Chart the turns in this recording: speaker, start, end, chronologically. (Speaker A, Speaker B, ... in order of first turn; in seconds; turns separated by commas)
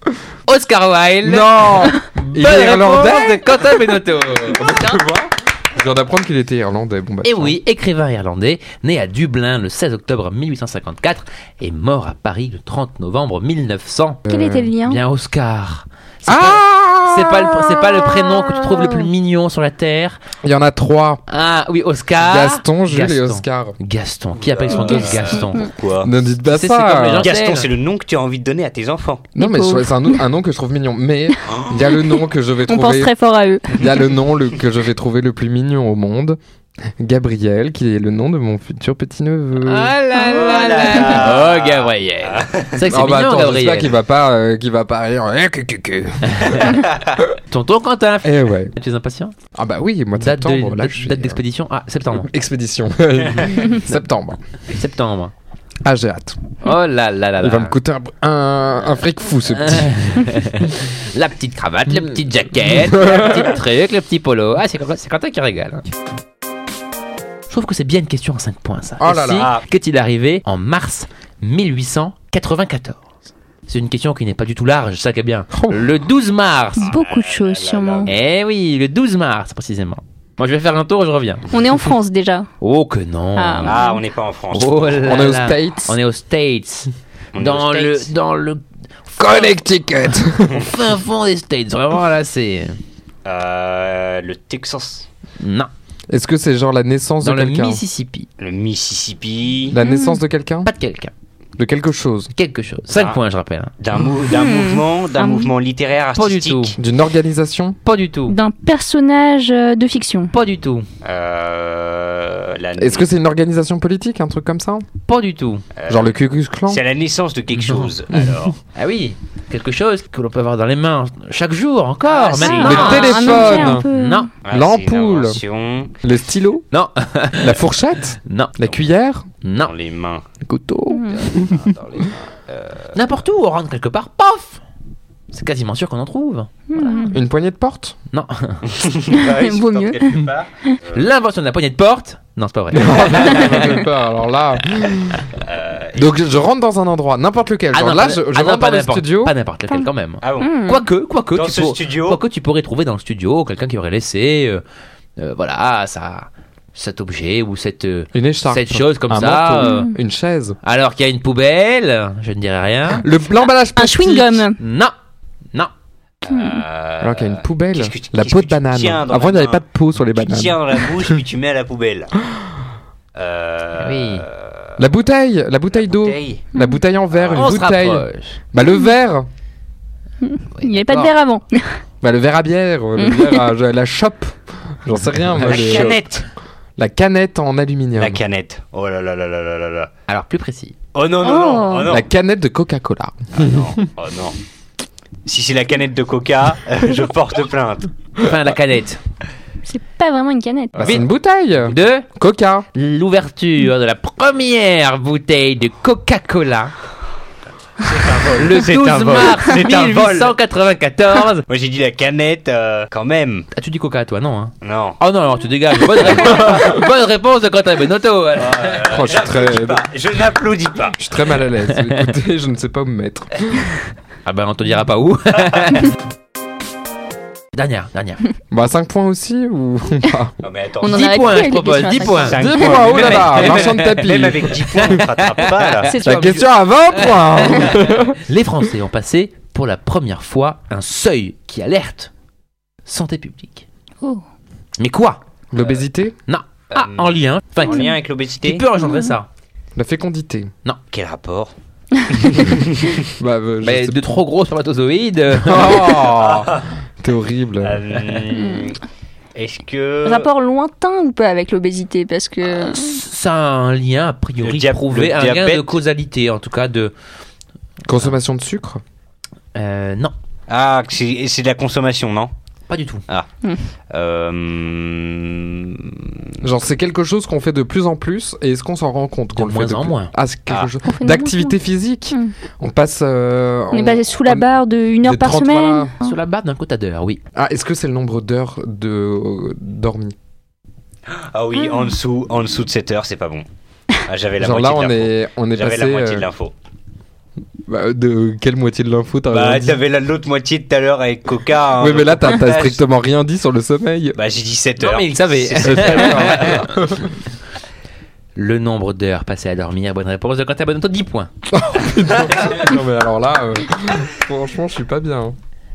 Speaker A: 0.5-4.9, Speaker B: 1.2-3.4, Speaker B: 4.5-7.6, Speaker A: 7.2-14.2, Speaker B: 14.3-14.7, Speaker C: 14.3-15.0, Speaker A: 14.8-20.2, Speaker B: 16.3-19.1, Speaker B: 20.4-21.2, Speaker A: 21.3-25.7, Speaker B: 22.2-23.8, Speaker D: 24.3-26.3, Speaker C: 24.7-25.2, Speaker B: 26.0-27.3, Speaker A: 26.5-27.7, Speaker D: 27.2-29.3, Speaker B: 29.4-33.1, Speaker C: 29.4-30.2, Speaker D: 31.5-31.8, Speaker C: 31.9-34.1, Speaker B: 33.7-36.4, Speaker B: 37.0-39.9, Speaker A: 39.6-43.9, Speaker C: 40.1-41.3, Speaker D: 40.3-42.9, Speaker B: 42.9-47.2, Speaker A: 46.3-46.6, Speaker A: 47.5-49.3, Speaker B: 48.2-48.7, Speaker B: 49.5-51.4, Speaker A: 50.2-52.3, Speaker B: 52.2-54.4, Speaker A: 54.7-55.3, Speaker B: 55.8-56.4, Speaker A: 56.6-57.8, Speaker B: 57.4-60.2, Speaker A: 59.5-65.9, Speaker B: 62.6-63.6, Speaker A: 67.5-73.1, Speaker B: 69.0-69.5, Speaker D: 69.3-69.7, Speaker A: 73.7-76.9, Speaker B: 75.5-75.9, Speaker C: 76.8-78.1, Speaker D: 76.8-78.1, Speaker A: 78.1-81.5, Speaker C: 81.5-82.5, Speaker A: 82.6-83.8, Speaker C: 83.4-84.0, Speaker D: 83.6-85.1, Speaker A: 84.5-89.6, Speaker B: 85.0-86.0, Speaker D: 87.3-88.1, Speaker B: 89.2-90.7, Speaker A: 90.4-92.8, Speaker D: 93.2-95.1, Speaker A: 95.4-95.7, Speaker B: 96.1-97.8, Speaker A: 97.2-98.3, Speaker D: 98.4-99.8, Speaker B: 99.7-100.7, Speaker C: 99.8-100.2, Speaker A: 100.6-101.1, Speaker B: 101.6-102.3, Speaker A: 102.4-103.7, Speaker D: 102.9-103.2, Speaker D: 103.8-106.8, Speaker C: 104.2-105.5, Speaker A: 106.2-106.8, Speaker B: 106.8-107.8, Speaker A: 107.8-108.4, Speaker C: 108.3-110.3, Speaker A: 110.3-110.8, Speaker D: 111.0-113.1, Speaker B: 112.8-114.8, Speaker A: 115.1-115.6, Speaker D: 115.8-116.1, Speaker B: 115.9-116.8, Speaker D: 116.7-118.6, Speaker A: 118.8-124.3, Speaker D: 122.0-123.4, Speaker C: 122.4-124.3, Speaker B: 122.6-123.9, Speaker D: 124.4-125.9, Speaker B: 124.5-125.4, Speaker B: 126.0-126.7, Speaker A: 126.7-127.6, Speaker B: 127.4-129.2, Speaker A: 128.3-128.8, Speaker A: 129.4-129.7, Speaker D: 129.6-130.2, Speaker B: 130.4-131.7, Speaker C: 130.9-131.3, Speaker A: 131.2-131.7, Speaker D: 131.8-133.0, Speaker A: 132.9-134.6, Speaker A: 135.3-137.2, Speaker C: 136.7-137.2, Speaker B: 137.1-138.0, Speaker A: 138.1-138.8, Speaker D: 138.7-141.1, Speaker C: 139.1-140.8, Speaker A: 140.9-143.5, Speaker B: 142.7-145.3, Speaker D: 143.1-143.6, Speaker D: 145.4-146.2, Speaker B: 146.0-149.3, Speaker A: 147.7-154.6, Speaker D: 150.2-150.6, Speaker C: 150.4-150.8, Speaker D: 151.3-152.2, Speaker A: 155.2-159.9, Speaker B: 158.1-160.6, Speaker C: 159.6-159.9, Speaker A: 160.6-163.1, Speaker B: 163.0-164.5, Speaker C: 163.8-164.6, Speaker A: 164.6-164.9, Speaker D: 166.2-172.1, Speaker C: 166.3-166.6, Speaker B: 167.0-171.2, Speaker D: 173.2-174.8, Speaker A: 173.8-174.3, Speaker B: 174.8-179.3, Speaker D: 175.7-176.5, Speaker C: 176.5-176.8, Speaker D: 177.1-177.6, Speaker A: 177.3-178.3, Speaker C: 180.2-181.7, Speaker A: 180.6-181.1, Speaker B: 182.0-186.2, Speaker C: 183.0-183.4, Speaker D: 185.4-186.3, Speaker A: 185.4-185.9, Speaker B: 186.8-188.2, Speaker D: 188.0-189.9, Speaker A: 190.1-190.8, Speaker D: 190.9-192.0, Speaker C: 191.2-192.0, Speaker B: 191.9-193.8, Speaker D: 193.3-194.4, Speaker D: 195.3-197.9, Speaker A: 198.2-199.0, Speaker C: 199.6-200.8, Speaker B: 200.8-202.7, Speaker A: 200.8-201.1, Speaker A: 201.7-202.1, Speaker A: 202.7-206.7, Speaker D: 207.8-210.4, Speaker A: 208.3-211.4, Speaker D: 211.5-213.5, Speaker A: 213.5-218.8, Speaker D: 214.6-215.0, Speaker D: 218.4-221.0, Speaker B: 218.9-219.8, Speaker B: 221.0-223.8, Speaker A: 224.3-225.9, Speaker A: 227.5-228.2, Speaker B: 228.5-230.3, Speaker D: 230.4-231.4, Speaker C: 230.8-232.9, Speaker A: 230.9-242.1, Speaker D: 232.1-235.9, Speaker B: 232.3-235.0, Speaker C: 235.8-236.3, Speaker B: 236.1-238.2, Speaker A: 242.9-243.7, Speaker A: 244.8-245.2, Speaker B: 245.5-246.2, Speaker A: 246.3-249.3, Speaker D: 246.7-248.7, Speaker C: 248.8-249.2, Speaker B: 249.8-250.5, Speaker D: 250.9-251.5, Speaker D: 252.1-253.1, Speaker B: 253.2-254.0, Speaker A: 253.6-256.1, Speaker B: 255.3-257.8, Speaker D: 256.2-256.7, Speaker D: 257.6-258.8, Speaker C: 258.3-258.7, Speaker D: 259.4-260.3, Speaker C: 260.0-262.9, Speaker A: 262.4-266.9, Speaker D: 264.4-265.8, Speaker B: 267.9-268.8, Speaker A: 269.6-270.1, Speaker D: 270.5-272.3, Speaker A: 272.7-273.0, Speaker D: 273.9-276.1, Speaker B: 276.4-284.5, Speaker A: 279.4-280.1, Speaker C: 280.9-281.6, Speaker C: 283.7-286.2, Speaker B: 285.0-285.9, Speaker A: 286.0-287.2, Speaker B: 287.3-290.1, Speaker D: 291.1-293.5, Speaker D: 294.0-296.5, Speaker B: 294.4-296.3, Speaker B: 297.7-299.8, Speaker D: 299.3-302.8, Speaker B: 301.8-304.2, Speaker D: 304.1-306.4, Speaker A: 304.8-306.7, Speaker B: 305.6-307.2, Speaker A: 308.4-311.3, Speaker B: 311.5-315.4, Speaker D: 312.3-312.6